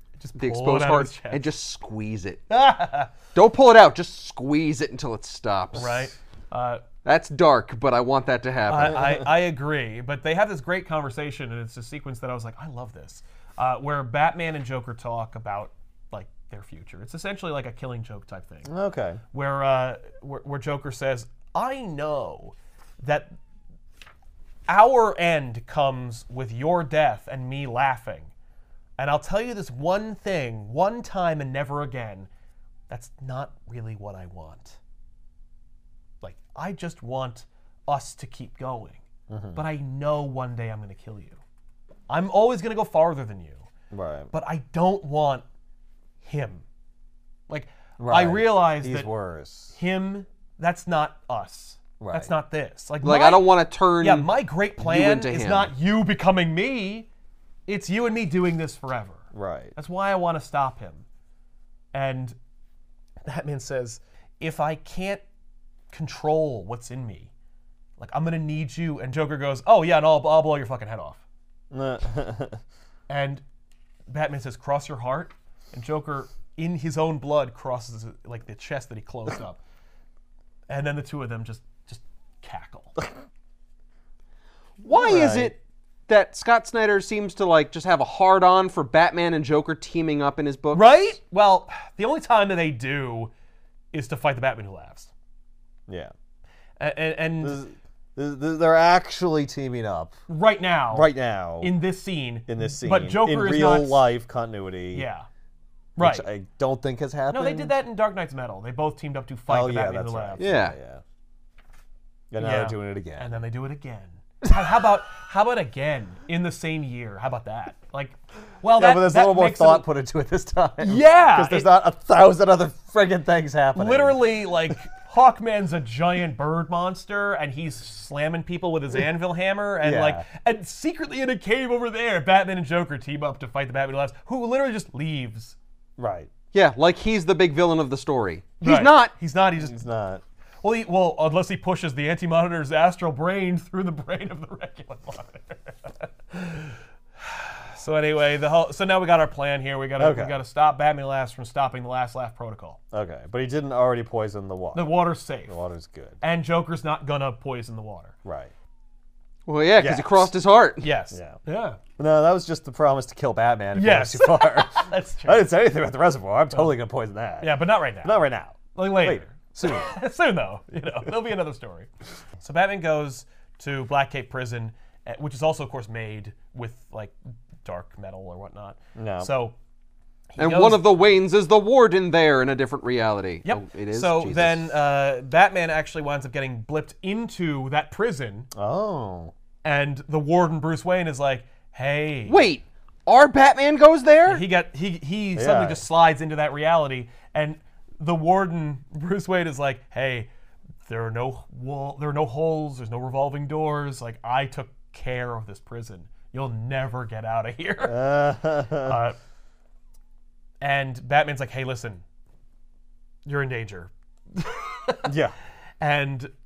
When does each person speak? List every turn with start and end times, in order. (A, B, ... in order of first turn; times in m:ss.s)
0:00.2-0:01.4 A
0:00.4-0:02.4 B
0:02.5-0:03.1 A
0:03.3-0:06.0 B
0:05.7-0:06.8 A
0:07.0-0:09.0 B
0:08.7-0:18.7 A
0:08.8-0:09.3 C
0:18.6-0:19.2 C
0:19.3-0:23.4 A
0:24.7-0:28.3 A
0:29.0-0:32.3 A
0:32.9-0:34.8 A
0:36.2-0:39.0 A
0:39.3-0:39.6 C
0:39.5-0:41.4 A
0:42.1-0:43.7 A
0:43.9-0:44.3 C
0:44.3-0:45.4 A
0:46.2-0:46.6 A
0:47.5-0:49.1 A
0:48.0-0:49.8 C
0:49.7-0:57.1 A
0:52.0-0:52.3 C
0:53.0-0:55.7 B
0:57.7-0:59.2 A
0:59.3-0:59.7 C
0:59.8-1:01.0 A
1:01.9-1:02.4 A
1:03.2-1:05.2 A
1:05.9-1:07.3 A
1:08.0-1:11.2 A
1:11.7-1:12.6 C
1:13.1-1:13.4 A
1:14.1-1:19.6 A
1:20.7-1:23.0 A
1:24.8-1:25.6 B
1:24.9-1:25.5 C
1:26.1-1:30.9 B
1:30.7-1:33.3 A
1:33.9-1:35.1 A
1:36.8-1:37.6 A
1:37.4-1:40.1 C
1:40.3-1:44.0 A
1:40.9-1:41.7 C
1:42.5-1:45.1 C
1:44.9-1:45.2 A
1:46.0-1:46.2 A
1:46.0-1:47.7 C
1:47.3-1:50.6 A
1:49.5-1:51.0 C
1:50.4-1:50.8 B
1:52.3-1:53.3 C
1:52.4-1:59.9 A
1:58.8-2:04.7 C
2:00.8-2:01.7 A
2:03.7-2:15.6 A
2:09.8-2:10.2 C
2:16.0-2:16.3 C
2:16.5-2:19.1 B
2:18.6-2:19.8 A
2:19.6-2:20.2 C
2:20.6-2:32.8 A
2:30.0-2:30.4 C
2:32.9-2:34.9 C
2:34.7-2:35.6 A
2:35.5-2:36.2 C
2:36.2-2:38.1 A
2:38.2-2:38.5 C
2:39.5-2:40.9 B
2:39.8-2:40.3 C
2:40.8-2:41.8 A
2:41.1-2:41.4 C
2:42.0-2:49.9 C
2:43.7-2:45.5 A
2:47.4-2:51.9 A
2:52.4-2:59.5 A
2:59.0-2:59.3 C
3:00.3-3:00.9 A
3:00.4-3:04.7 B
3:03.4-3:08.5 A
3:08.5-3:09.3 C
3:09.6-3:12.4 A
3:12.2-3:14.4 B
3:14.3-3:20.3 A
3:15.4-3:15.8 C
3:20.8-3:28.1 A
3:27.8-3:29.0 C
3:28.8-3:29.2 A
3:30.6-3:32.0 A
3:33.2-3:35.1 A
3:35.0-3:35.3 C
3:35.8-3:36.3 A